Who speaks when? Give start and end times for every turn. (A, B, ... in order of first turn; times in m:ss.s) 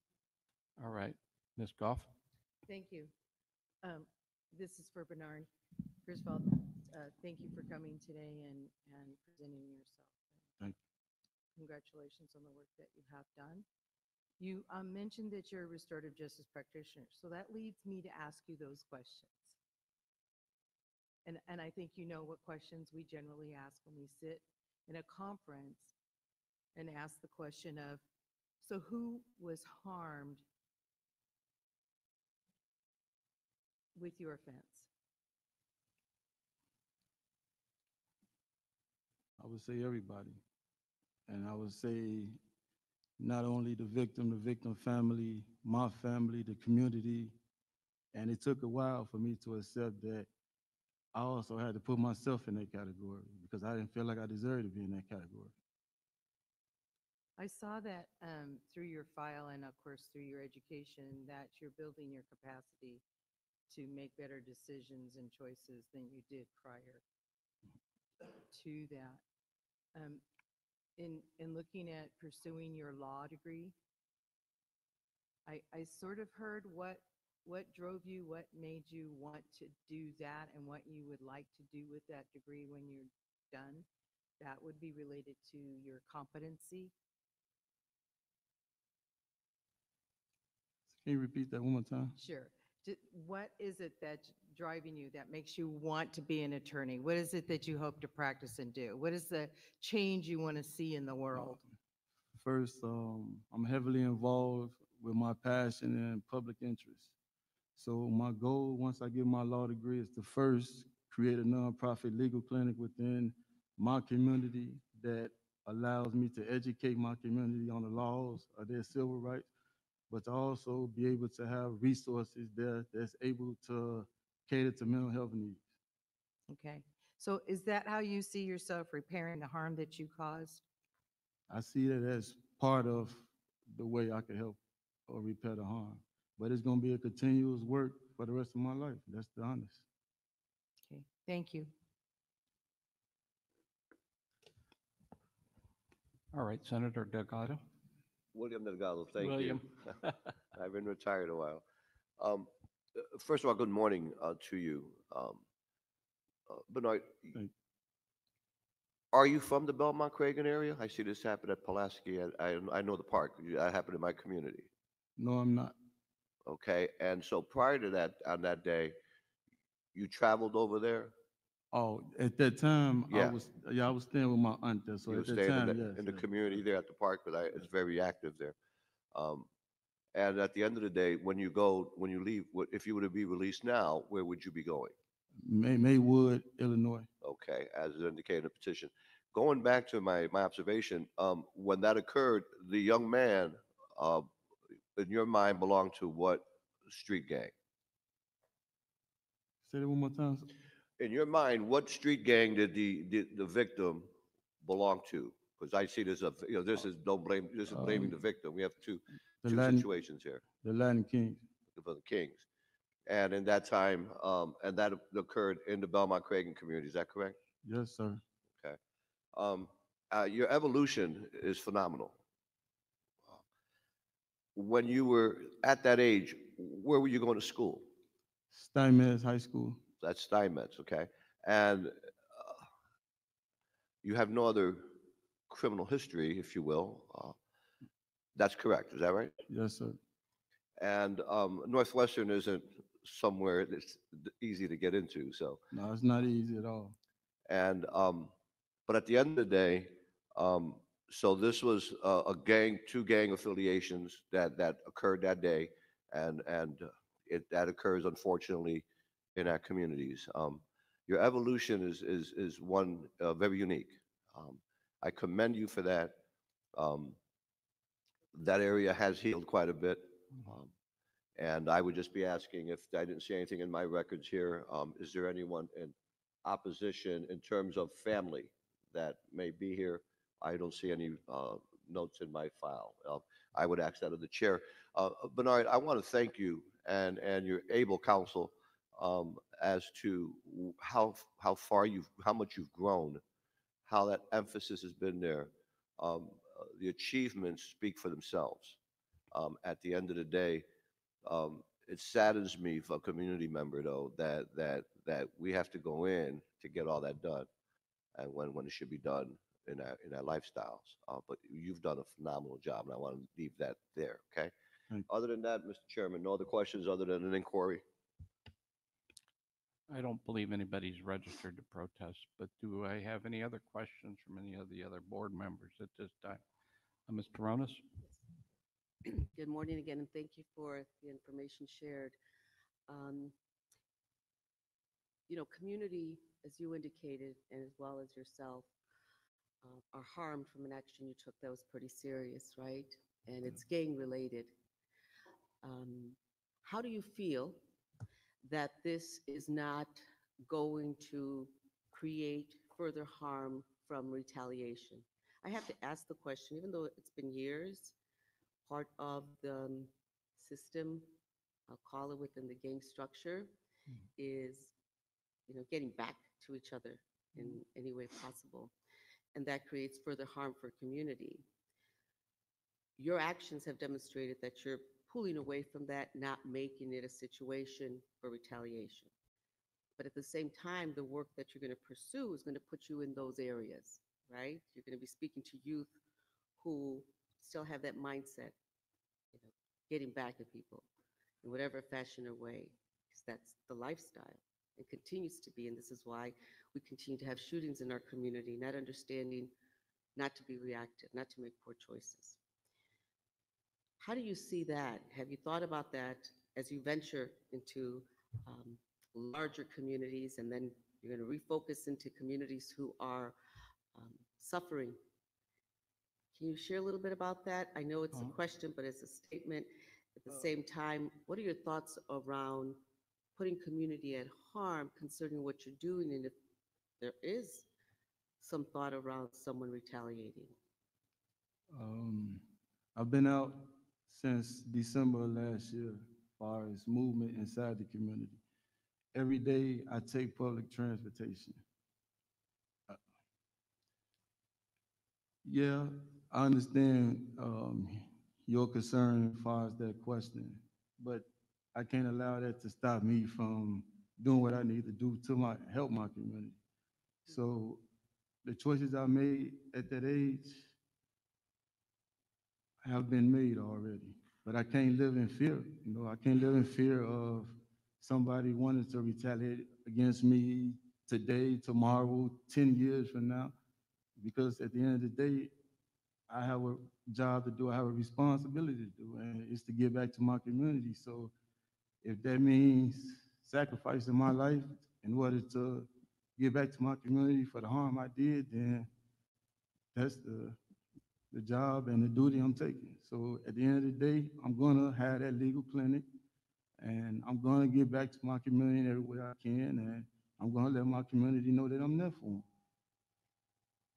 0:00.8-0:02.1 A
0:02.7-0:03.1 B
0:03.8-0:05.5 B
0:06.0-0:10.4 B
0:11.6-0:13.7 B
0:14.4-0:19.6 B
0:21.3-0:25.9 B
0:26.8-0:28.0 B
0:28.6-0:30.4 B
0:34.0-0:34.9 B
0:39.4-0:40.4 C
0:41.3-0:42.4 C
0:43.2-0:47.3 C
0:48.1-0:50.3 C
0:51.1-0:55.5 C
0:57.4-1:03.0 B
1:03.7-1:07.0 B
1:08.5-1:09.2 B
1:10.0-1:10.2 B
1:11.0-1:13.8 B
1:15.5-1:23.9 B
1:24.4-1:26.9 B
1:30.9-1:32.1 C
1:32.2-1:41.6 B
1:41.3-1:41.7 C
1:42.4-1:47.1 C
1:47.8-1:59.5 C
2:00.1-2:05.6 C
2:06.5-2:10.6 B
2:11.5-2:14.6 C
2:15.1-2:19.8 C
2:20.8-2:21.7 B
2:26.3-2:27.6 A
2:28.3-2:30.0 D
2:29.2-2:30.1 A
2:30.5-2:31.6 D
2:32.2-2:35.4 D
2:36.5-2:37.4 D
2:39.1-2:44.7 D
2:45.2-2:45.7 C
2:46.5-2:49.0 D
2:49.9-2:51.1 D
2:51.7-2:56.6 C
2:53.1-2:53.4 D
2:55.1-2:58.6 D
2:59.1-2:59.5 D
3:00.2-3:04.9 D
3:05.4-3:07.1 C
3:07.2-3:14.3 D
3:15.0-3:17.5 D
3:19.6-3:20.5 C
3:21.0-3:24.1 D
3:24.6-3:30.4 D
3:27.7-3:28.2 C
3:29.4-3:29.9 C
3:30.5-3:31.4 C
3:31.7-3:32.4 D
3:33.1-3:37.4 D
3:37.6-3:38.2 C
3:39.3-3:42.2 D
3:44.6-3:47.9 D
3:48.5-3:49.8 C
3:50.0-3:52.6 D
3:54.0-3:54.9 D
3:55.5-3:57.4 D
3:58.4-3:59.3 D
3:59.5-4:00.0 C
4:00.8-4:05.6 D
4:05.7-4:07.0 C
4:07.5-4:08.3 D
4:08.9-4:26.2 D
4:26.8-4:27.2 D
4:28.3-4:30.7 D
4:31.4-4:53.2 D
4:53.9-4:58.8 D
4:59.3-5:00.6 D
5:01.2-5:07.5 D
5:08.2-5:14.5 D
5:15.1-5:17.8 D
5:19.9-5:26.4 A
5:27.1-5:27.9 A
5:29.1-5:32.2 E
5:32.9-5:33.3 E
5:35.3-5:38.7 E
5:39.6-5:44.5 E
5:45.6-5:47.6 E
5:48.5-5:50.0 E
5:50.5-5:57.9 E
5:58.7-6:01.1 E
6:01.7-6:03.5 E
6:04.2-6:04.7 E
6:05.5-6:08.7 E
6:09.4-6:11.4 E
6:13.0-6:19.1 E
6:20.0-6:25.9 E
6:26.6-6:28.6 E
6:29.3-6:30.8 E
6:31.4-6:39.5 E
6:40.2-6:42.4 E
6:44.0-6:53.4 E
6:54.0-6:55.0 E
6:56.4-7:02.8 E
6:58.1-6:58.4 C
7:03.4-7:06.3 E
7:07.0-7:07.7 E
7:08.4-7:10.5 E
7:11.7-7:12.4 C
7:13.0-7:18.4 C
7:19.1-7:21.6 C
7:25.4-7:36.6 C
7:37.2-7:37.8 C
7:38.4-7:40.7 C
7:42.8-7:53.5 C
7:54.2-7:55.5 C
7:56.3-8:01.3 C
8:02.0-8:08.9 C
8:10.0-8:10.6 C
8:11.3-8:16.0 C
8:16.8-8:22.4 C